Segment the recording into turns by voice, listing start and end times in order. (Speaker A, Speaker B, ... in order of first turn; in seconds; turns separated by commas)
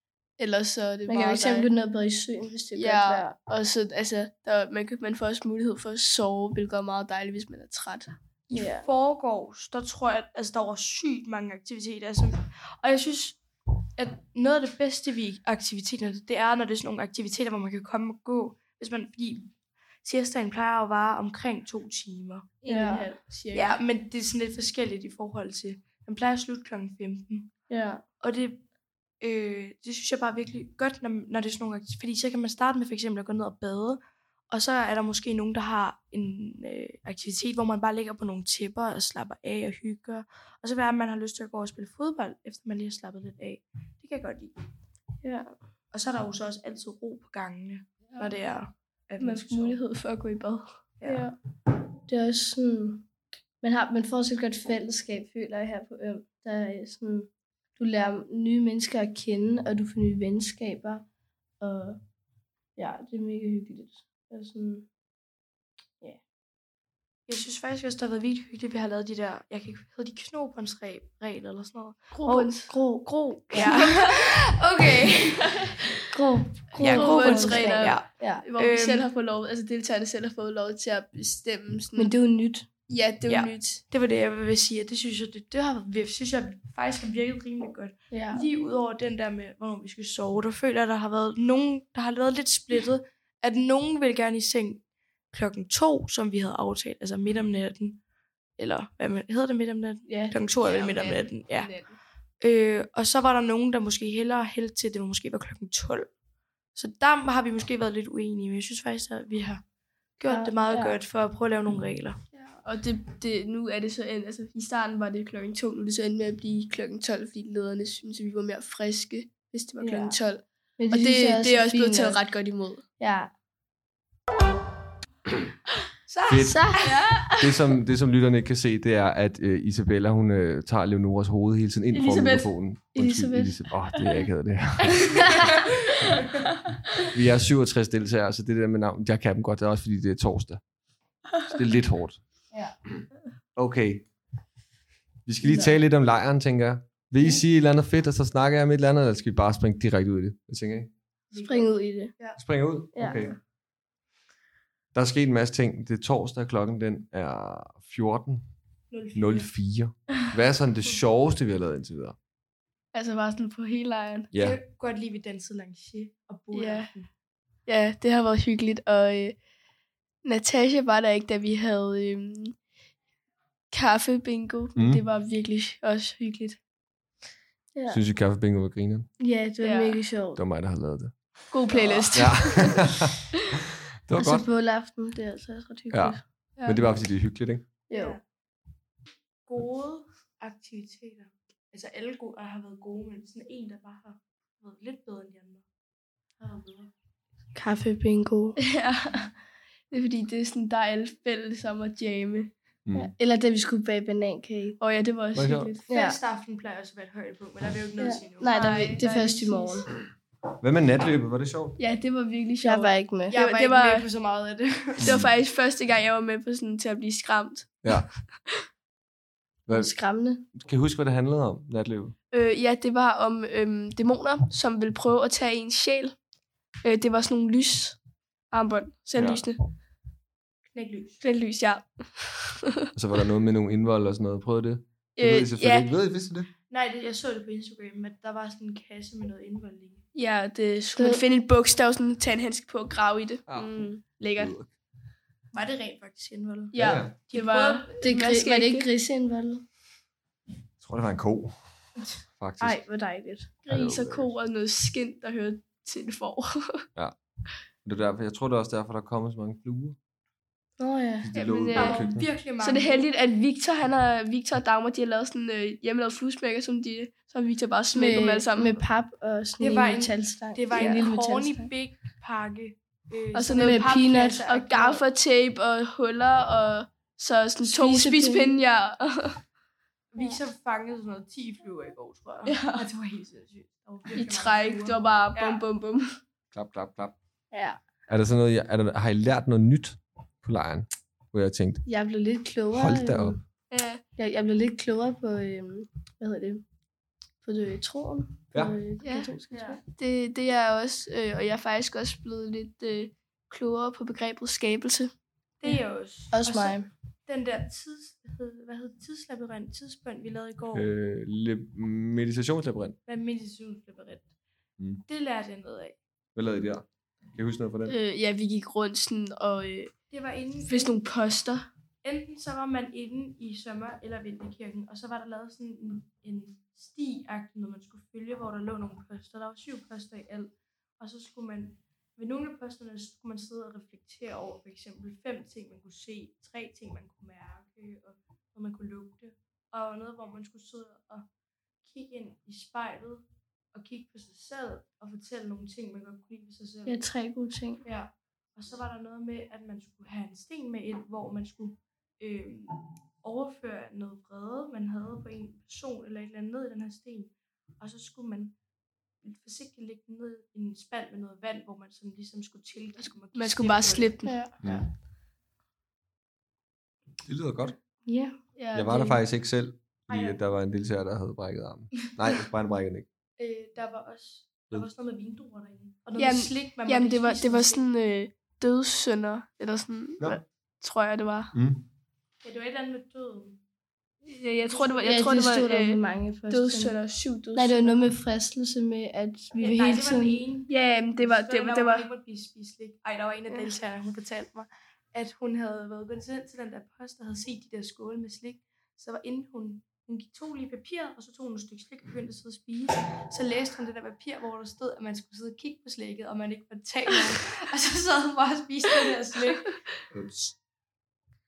Speaker A: 0.4-1.7, Speaker B: 1.1-3.3, Speaker A: 2.8-8.2, Speaker C: 8.5-13.4, Speaker B: 8.5-8.9, Speaker C: 14.0-19.5, Speaker C: 20.0-22.6, Speaker A: 22.6-23.8, Speaker B: 22.7-23.1, Speaker C: 23.5-27.5, Speaker B: 27.7-28.0, Speaker C: 28.2-28.6, Speaker C: 29.2-44.5, Speaker B: 45.2-45.5, Speaker C: 45.9-49.8, Speaker A: 49.2-51.2, Speaker C: 51.0-51.3, Speaker B: 51.1-51.3, Speaker B: 52.1-53.1, Speaker B: 53.6-61.1, Speaker B: 61.6-62.0, Speaker B: 62.8-64.9, Speaker C: 67.3-72.5, Speaker A: 72.2-72.7, Speaker B: 72.3-74.0, Speaker C: 73.1-75.8, Speaker A: 73.5-74.2, Speaker B: 76.1-78.4, Speaker C: 76.8-79.1, Speaker A: 76.8-82.1, Speaker B: 82.0-82.7, Speaker A: 82.9-83.8, Speaker C: 83.3-98.0, Speaker B: 88.1-88.5, Speaker C: 98.6-101.7, Speaker B: 100.1-100.4, Speaker A: 100.6-102.0, Speaker C: 102.4-106.1, Speaker C: 106.8-109.6, Speaker C: 110.2-112.2, Speaker B: 110.3-111.0, Speaker A: 112.4-122.8, Speaker B: 119.8-120.2, Speaker B: 120.8-122.2, Speaker B: 123.0-123.3, Speaker C: 126.1-127.1, Speaker D: 126.3-126.7, Speaker B: 126.4-127.0, Speaker A: 126.8-127.5, Speaker D: 127.4-135.4, Speaker B: 131.9-132.4, Speaker B: 132.9-134.2, Speaker B: 135.0-135.6, Speaker D: 137.0-140.6, Speaker D: 141.4-142.3, Speaker D: 143.6-144.1, Speaker D: 145.2-150.9, Speaker B: 145.4-145.8, Speaker C: 151.3-152.4, Speaker B: 151.3-152.1, Speaker D: 152.4-153.4, Speaker B: 152.9-153.4, Speaker D: 154.9-158.5, Speaker C: 158.9-159.5, Speaker D: 159.2-162.2, Speaker A: 162.9-164.3, Speaker D: 164.3-164.6, Speaker C: 164.4-167.1, Speaker A: 166.5-166.9, Speaker A: 167.7-169.4, Speaker A: 170.2-172.6, Speaker A: 173.7-176.6, Speaker D: 174.8-175.0, Speaker B: 177.8-178.0, Speaker D: 177.9-179.1, Speaker B: 179.2-180.4, Speaker A: 179.6-180.0, Speaker D: 180.4-181.4, Speaker A: 181.5-182.9, Speaker C: 181.8-182.1, Speaker D: 182.1-183.4, Speaker D: 184.1-184.5, Speaker B: 184.2-186.2, Speaker D: 185.9-187.7, Speaker B: 187.9-188.2, Speaker C: 187.9-188.2, Speaker C: 189.5-195.6, Speaker C: 196.4-196.9, Speaker B: 197.6-198.6, Speaker A: 198.7-199.3, Speaker A: 199.9-202.5, Speaker D: 202.9-203.1, Speaker B: 202.9-204.8, Speaker A: 204.8-205.9, Speaker D: 205.3-205.7, Speaker C: 205.9-209.8, Speaker B: 205.9-206.2, Speaker B: 208.0-209.9, Speaker A: 208.5-209.6, Speaker D: 210.6-211.8, Speaker A: 211.8-214.1, Speaker B: 212.6-213.4, Speaker C: 213.3-215.2, Speaker D: 215.0-215.3, Speaker A: 215.0-218.0, Speaker D: 217.8-218.1, Speaker D: 219.7-219.9, Speaker B: 219.7-220.5, Speaker D: 220.5-222.2, Speaker A: 222.3-226.2, Speaker A: 226.8-228.0, Speaker A: 228.5-229.6, Speaker D: 229.2-229.4, Speaker C: 230.7-231.2, Speaker A: 231.2-232.7, Speaker D: 232.9-236.5, Speaker A: 235.2-235.9, Speaker C: 236.7-240.0, Speaker A: 240.2-244.5, Speaker B: 241.0-241.2, Speaker D: 243.5-244.7, Speaker C: 245.5-248.1, Speaker A: 246.7-248.9, Speaker D: 246.8-247.2, Speaker B: 248.0-249.7, Speaker D: 250.8-251.6, Speaker D: 252.4-252.8, Speaker B: 252.6-253.5, Speaker A: 253.7-256.9, Speaker D: 253.7-254.3, Speaker D: 257.8-260.0, Speaker B: 260.8-261.3, Speaker D: 261.2-262.3, Speaker A: 261.3-262.1, Speaker C: 261.7-263.1, Speaker A: 262.6-268.8, Speaker B: 267.9-271.7, Speaker C: 269.6-275.0, Speaker A: 273.3-279.4, Speaker B: 273.5-274.5, Speaker B: 277.6-278.6, Speaker C: 280.1-285.6, Speaker A: 282.5-282.9, Speaker A: 284.1-286.2, Speaker D: 286.5-287.2, Speaker B: 287.5-287.8, Speaker D: 288.1-291.9, Speaker B: 291.9-293.4, Speaker D: 292.7-293.4, Speaker A: 293.7-294.0, Speaker B: 294.2-296.6, Speaker B: 297.4-299.8, Speaker D: 298.5-298.8, Speaker A: 299.0-305.1, Speaker C: 305.6-310.9, Speaker B: 306.3-306.9, Speaker D: 310.7-313.0, Speaker C: 313.1-314.3, Speaker C: 315.1-316.0, Speaker D: 316.4-318.0, Speaker A: 317.9-319.9, Speaker C: 320.1-320.9, Speaker A: 320.7-321.7, Speaker C: 322.0-341.3, Speaker C: 341.8-347.0, Speaker B: 346.9-347.8, Speaker C: 347.8-358.6, Speaker C: 359.2-364.8, Speaker A: 363.3-364.4, Speaker B: 364.2-364.5, Speaker D: 364.6-364.9, Speaker D: 367.2-367.8, Speaker B: 368.1-368.4, Speaker A: 368.6-369.2, Speaker D: 368.7-373.1, Speaker C: 370.1-370.4, Speaker C: 373.4-377.9, Speaker A: 376.2-381.5, Speaker D: 381.5-381.9, Speaker C: 382.4-383.6, Speaker A: 384.2-388.0, Speaker C: 384.7-385.3, Speaker B: 385.0-387.0, Speaker B: 387.5-390.4, Speaker C: 389.6-409.8, Speaker A: 390.7-392.1, Speaker D: 410.1-410.6